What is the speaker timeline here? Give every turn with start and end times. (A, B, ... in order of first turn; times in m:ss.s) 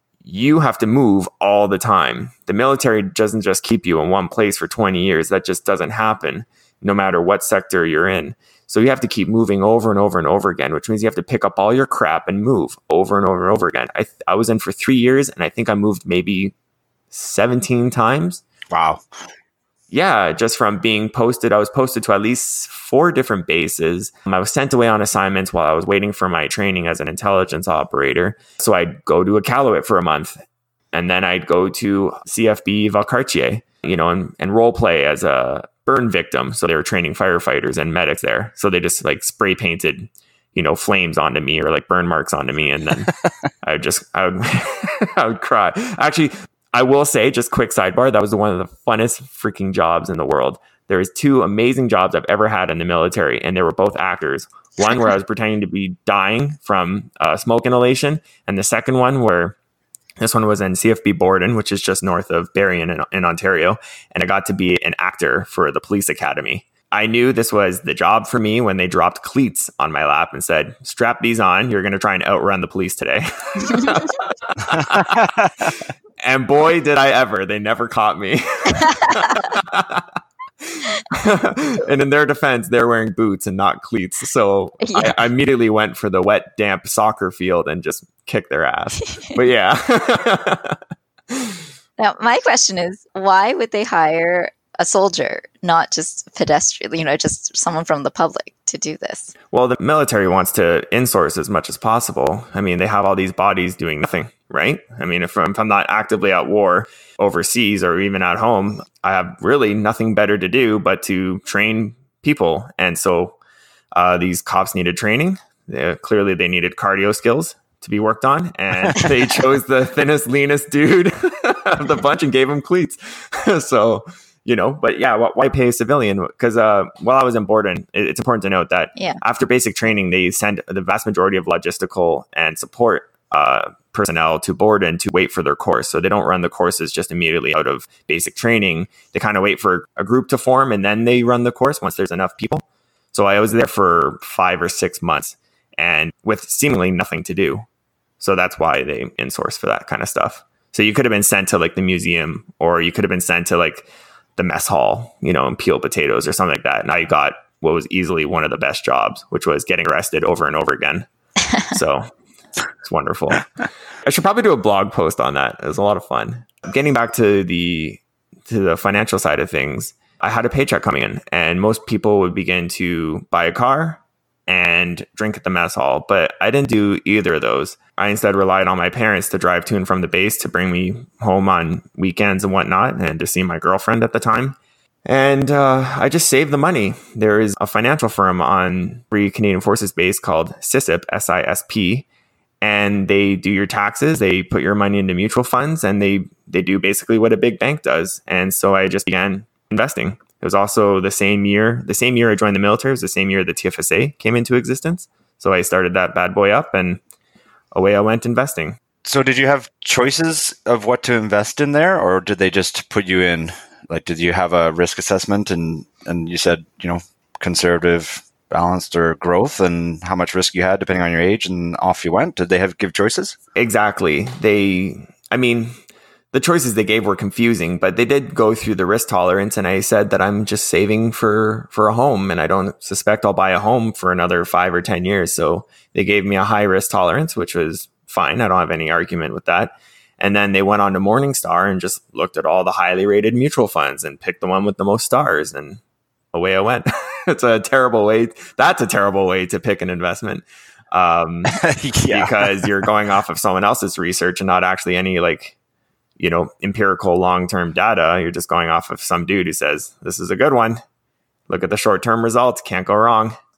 0:00.2-0:16.5 A
0:17.1-0:18.4 A
0:18.7-0:19.0 B
0:19.9-0:30.4 A
0:30.9-0:43.1 A
0:43.6-0:59.6 A
1:00.2-1:15.3 A
1:15.0-1:15.7 B
1:16.2-1:20.1 A
1:20.6-1:30.8 A
1:24.8-1:25.2 C
1:31.3-1:31.6 A
1:32.0-1:39.3 C
1:39.5-1:53.4 A
1:53.9-2:27.7 A
2:28.2-2:41.1 A
2:41.6-2:42.1 A
2:42.8-2:43.5 A
2:44.0-3:12.1 A
3:12.6-3:27.0 A
3:27.7-3:28.8 A
3:29.0-3:43.4 B
3:43.6-3:45.8 A
3:46.3-4:05.8 A
4:06.3-4:15.6 A
4:11.5-4:12.9 B
4:16.2-4:20.8 A
4:21.5-4:23.4 A